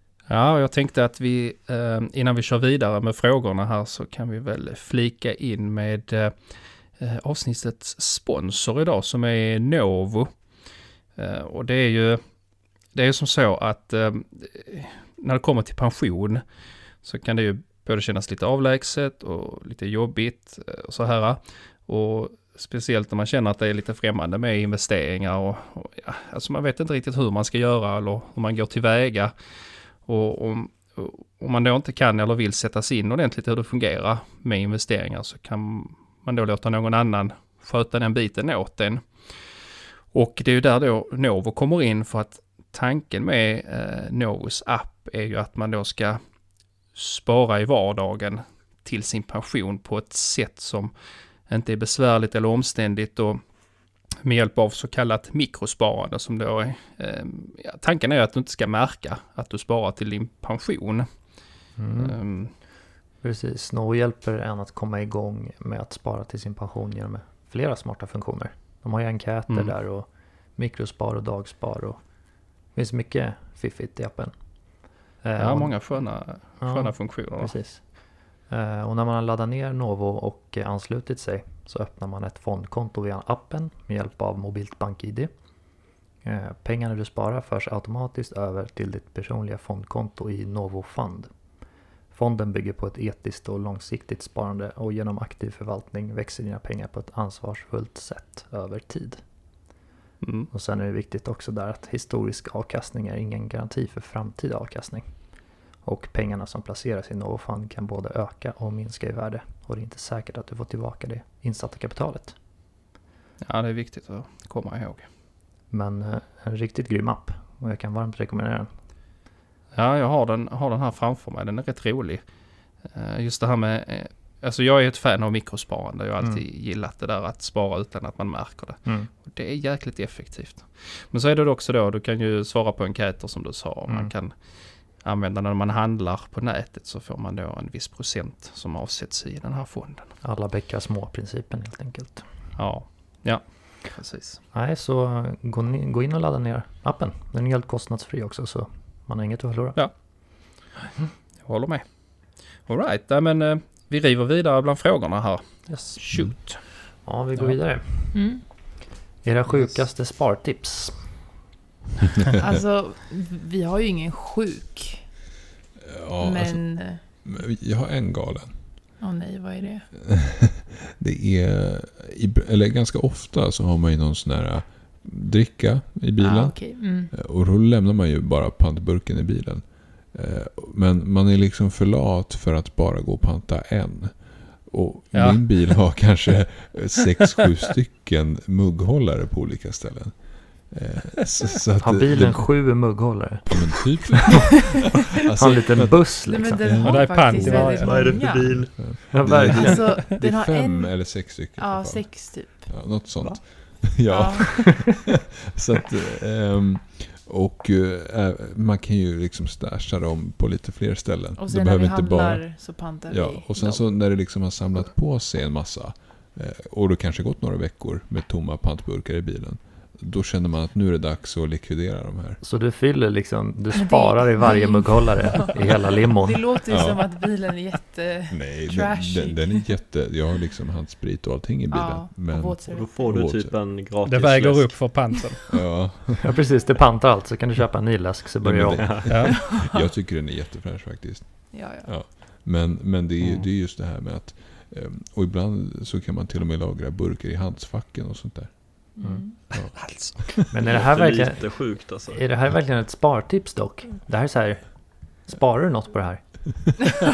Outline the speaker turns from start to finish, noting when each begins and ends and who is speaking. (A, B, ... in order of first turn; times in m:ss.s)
0:00.2-0:46.2 A
0:46.9-1:02.5 A
1:01.8-1:12.2 B
1:12.7-1:25.3 B
1:15.4-1:17.6 A
1:26.2-1:31.3 B
1:32.1-1:39.2 B
1:40.2-1:40.5 A
1:40.5-1:52.3 B
1:53.4-1:55.1 A
1:55.7-1:58.7 B
1:59.7-2:20.2 A
2:13.9-2:14.1 B
2:20.2-2:22.3 B
2:22.5-2:24.4 A
2:24.5-2:30.3 B
2:29.7-2:37.6 A
2:35.7-2:38.6 B
2:38.1-2:38.7 C
2:39.2-2:41.2 B
2:42.4-2:45.1 C
2:45.8-2:48.6 D
2:46.2-2:47.1 C
2:49.0-2:49.9 C
2:50.1-3:12.6 D
2:56.2-2:57.1 C
3:05.1-3:06.0 A
3:11.8-3:14.2 B
3:13.5-3:42.4 D
3:15.3-3:16.8 B
3:16.2-3:18.7 C
3:16.7-3:18.3 A
3:17.8-3:18.7 E
3:18.8-3:20.0 B
3:19.3-3:23.0 C
3:24.0-3:24.7 C
3:31.4-3:33.8 C
3:42.4-3:46.5 B
3:43.7-3:49.7 C
3:46.7-3:47.2 D
3:48.3-3:53.6 D
3:51.7-3:53.1 C
3:52.7-3:55.0 E
3:54.0-3:55.6 A
3:55.5-3:56.4 D
3:56.2-3:59.1 B
3:58.4-4:10.3 D
3:58.7-3:59.1 E
3:59.1-3:59.4 A
3:59.2-3:59.8 C
4:01.5-4:02.0 C
4:09.0-4:09.5 C
4:09.6-4:10.5 A
4:10.5-4:16.8 B
4:10.6-4:12.2 E